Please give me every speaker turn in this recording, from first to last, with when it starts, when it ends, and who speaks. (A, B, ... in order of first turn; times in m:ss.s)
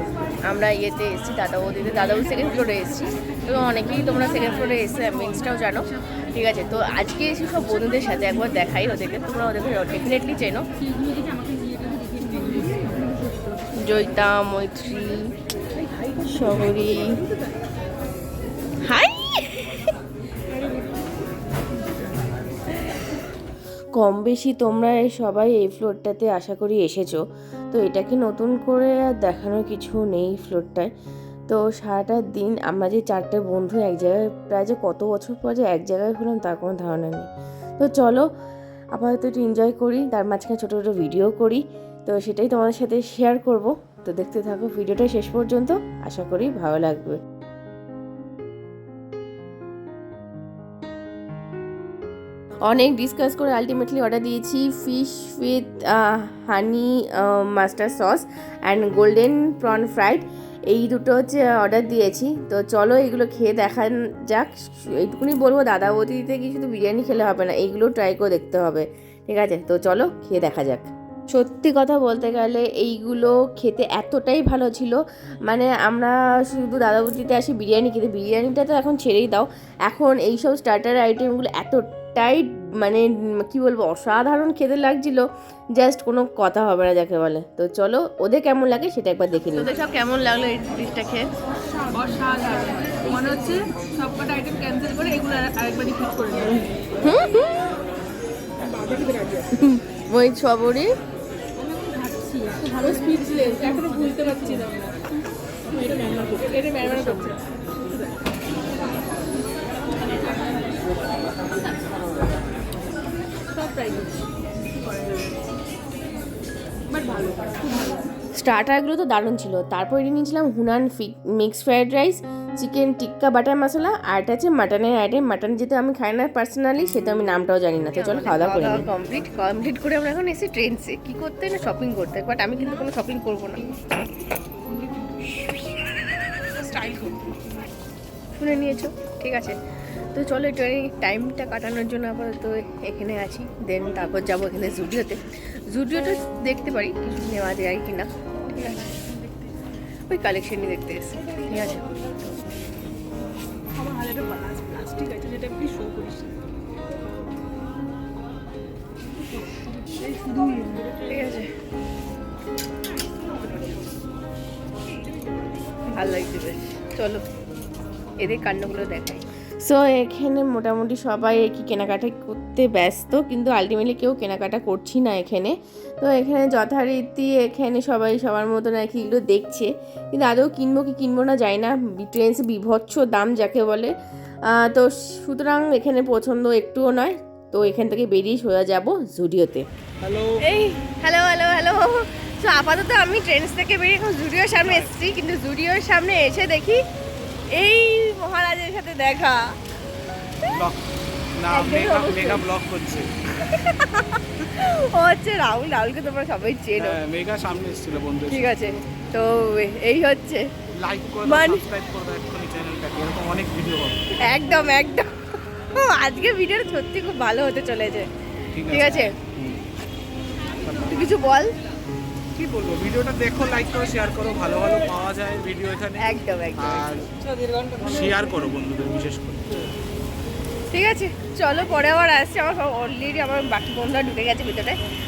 0:00.4-0:10.6 A
0:04.0-0:05.0 B
0:07.6-0:09.6 B
0:13.8-0:15.3 A
0:16.2-0:17.2 A
0:18.8-0:19.8 A
0:24.0-0:27.2 A
0:27.7-0:30.9 A
0:31.5-0:38.3 A
0:38.9-0:47.2 A
0:52.6-1:31.2 A
1:29.7-1:31.0 B
1:31.9-1:36.6 B
1:36.4-1:37.7 A
1:39.5-1:40.9 A
1:42.0-1:45.0 B
1:45.8-1:47.4 B
1:46.6-1:47.2 A
1:53.6-1:54.2 B
1:56.9-1:57.9 B
1:58.3-2:08.9 A
2:08.0-2:12.9 B
2:10.0-2:13.6 A
2:16.4-2:17.1 A
2:18.4-2:19.6 A
2:20.1-2:29.1 A
2:30.1-2:31.9 A
2:33.8-2:36.3 B
2:40.0-2:41.1 B
2:40.8-2:41.5 A
2:45.9-2:47.2 A
2:46.0-2:46.8 B
2:48.2-3:03.9 A
2:48.3-2:49.2 B
3:04.4-3:09.7 A
3:10.0-3:10.4 C
3:10.4-3:16.8 A
3:14.6-3:14.9 C
3:17.5-3:19.5 A
3:20.5-3:20.8 C
3:21.4-3:23.1 C
3:21.5-3:22.4 A
3:23.4-3:27.0 A
3:26.8-3:28.5 C
3:28.3-3:30.5 A
3:30.7-3:34.0 C
3:31.2-3:31.6 A
3:34.2-3:35.1 A
3:35.7-3:38.1 A
3:36.0-3:36.3 B
3:36.8-3:38.0 B
3:38.5-3:39.6 C
3:38.7-3:39.1 A
3:40.6-3:41.0 C
3:40.8-3:41.5 A
3:42.4-3:49.6 C
3:46.0-3:46.9 A
3:50.8-3:54.8 A